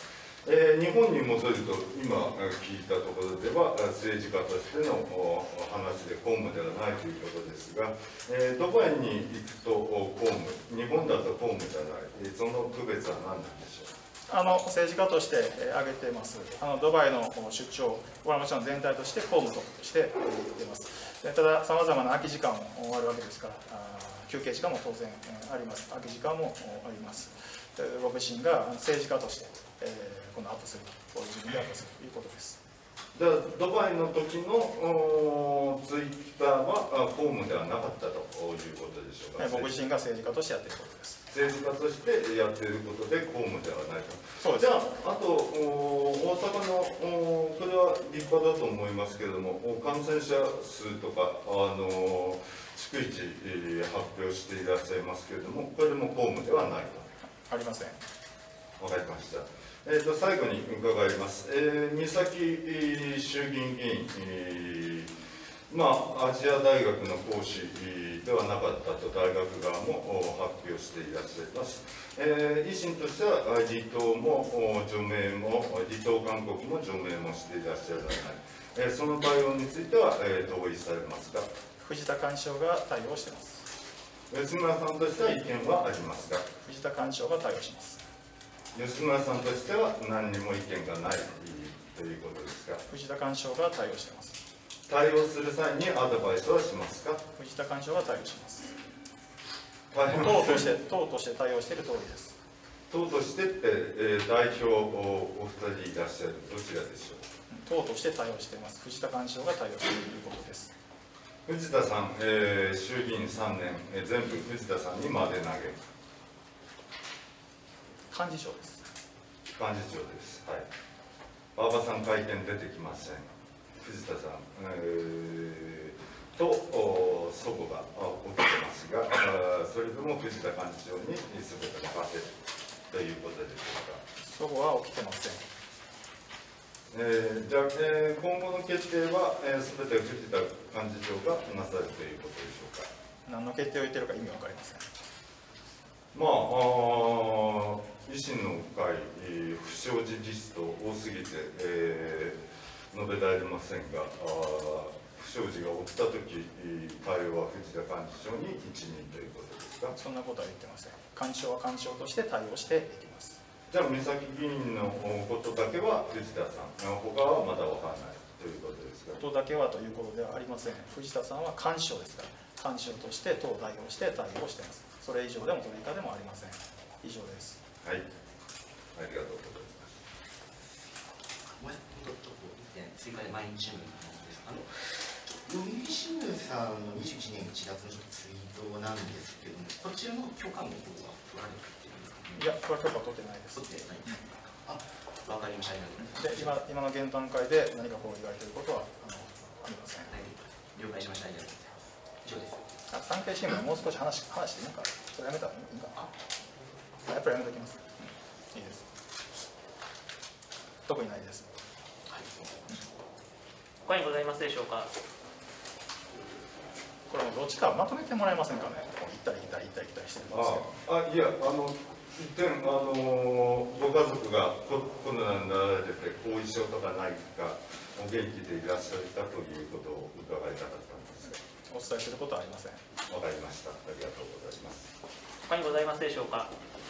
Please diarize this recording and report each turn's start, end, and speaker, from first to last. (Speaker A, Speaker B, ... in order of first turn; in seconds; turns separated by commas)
Speaker A: 0.5-13.9, Speaker B: 14.3-32.6, Speaker A: 33.1-39.7, Speaker B: 39.4-41.2, Speaker A: 41.3-57.1, Speaker B: 44.4-44.8, Speaker B: 57.5-58.0, Speaker A: 58.8-65.1, Speaker A: 65.7-81.5, Speaker B: 81.8-83.7, Speaker A: 84.3-86.5, Speaker B: 86.6-88.0, Speaker A: 88.7-92.8, Speaker B: 92.9-94.4, Speaker A: 94.9-97.2, Speaker B: 97.3-98.8, Speaker A: 99.9-100.7, Speaker B: 100.1-102.4, Speaker A: 102.9-107.2, Speaker B: 107.5-110.7, Speaker A: 111.5-115.8, Speaker B: 118.1-118.8, Speaker A: 119.6-120.7, Speaker A: 121.5-132.4, Speaker A: 132.9-134.0, Speaker B: 134.2-135.5, Speaker A: 136.9-142.9, Speaker B: 143.3-144.9, Speaker A: 146.1-152.4, Speaker A: 152.9-159.9, Speaker B: 159.9-163.4, Speaker A: 163.7-169.2, Speaker B: 169.2-177.6, Speaker A: 178.9-179.9, Speaker C: 181.6-192.6, Speaker B: 192.3-193.6, Speaker C: 193.5-196.6, Speaker B: 196.0-200.1, Speaker C: 200.1-202.7, Speaker B: 202.9-206.0, Speaker B: 207.0-208.8, Speaker B: 210.9-211.5, Speaker C: 212.1-213.1, Speaker D: 213.8-214.9, Speaker B: 217.1-220.7, Speaker A: 220.3-231.4, Speaker B: 231.7-232.8, Speaker A: 233.1-234.9, Speaker D: 235.4-236.6